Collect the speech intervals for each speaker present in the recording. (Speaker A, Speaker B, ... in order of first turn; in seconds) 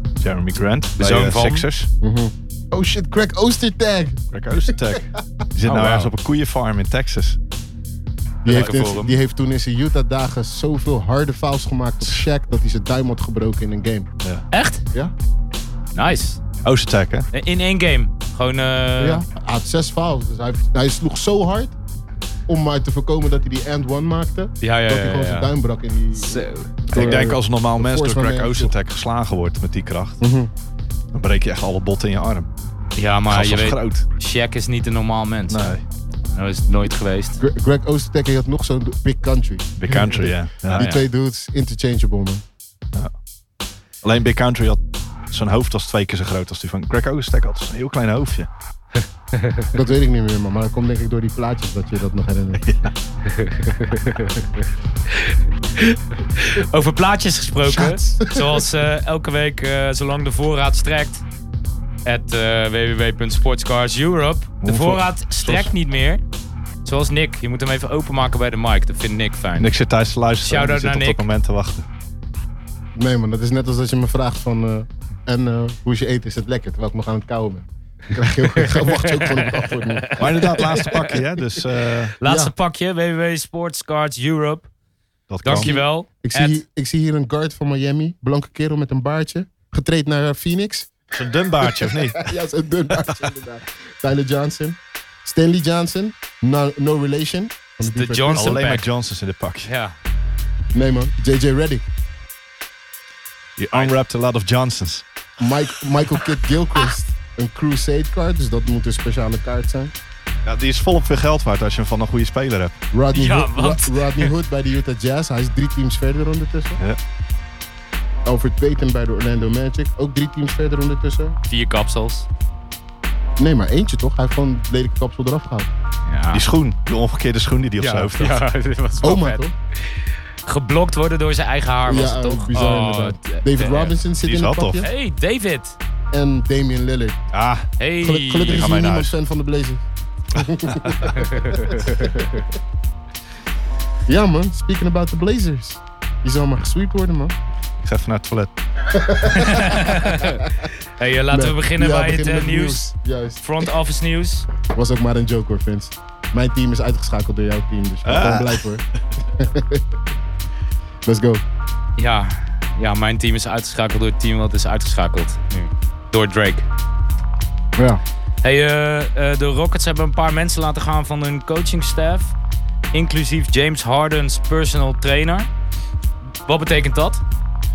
Speaker A: 0.2-1.9, 4.3-7.4, 16.6-17.3, 26.9-30.2, 31.1-32.5, 33.3-34.0, 35.5-35.8, 39.8-40.9, 44.0-48.5, 52.6-52.9, 64.6-65.7, 69.6-71.8, 80.2-82.1, 85.3-85.7, 91.1-92.3, 98.3-99.7, 103.6-105.0, 110.4-112.7, 126.3-128.4, 134.2-134.8, 137.3-137.7, 138.5-139.1, 147.8-148.5, 158.0-158.7
Speaker B: 1.0-1.6, 5.7-6.1, 8.4-9.2, 14.5-14.8, 15.9-16.4, 17.3-19.2, 24.6-25.5, 26.2-26.7, 33.0-35.8, 36.3-37.4, 40.8-41.0, 49.4-49.7, 53.3-54.4, 55.1-61.2, 62.0-66.2, 66.8-69.7, 70.4-71.2, 78.8-81.2, 82.2-84.7, 85.4-86.6, 97.8-98.8, 99.6-100.0, 113.1-114.3, 121.5-122.3, 126.0-126.5, 127.8-129.4, 130.4-133.9, 134.8-135.8, 137.8-138.8, 141.1-142.2, 149.2-152.9, 153.4-154.5, 162.0-166.7, 168.4-172.3, 172.9-175.5, 176.4-177.2
Speaker C: 2.0-5.2, 8.4-14.1, 19.0-21.8, 22.5-28.7, 30.2-30.5, 37.4-42.4, 49.7-52.6, 57.6-58.6, 73.0-80.2, 82.2-82.5, 85.5-91.0, 91.6-98.6, 100.7-101.8, 105.4-109.9, 112.9-116.8, 118.2-121.4, 123.4-125.7, 129.0-129.5, 131.8-134.9, 136.1-137.2, 138.0-142.5, 144.1-147.3, 148.9-150.6, 151.3-153.7, 154.7-159.8, 161.1-161.4, 167.8-168.0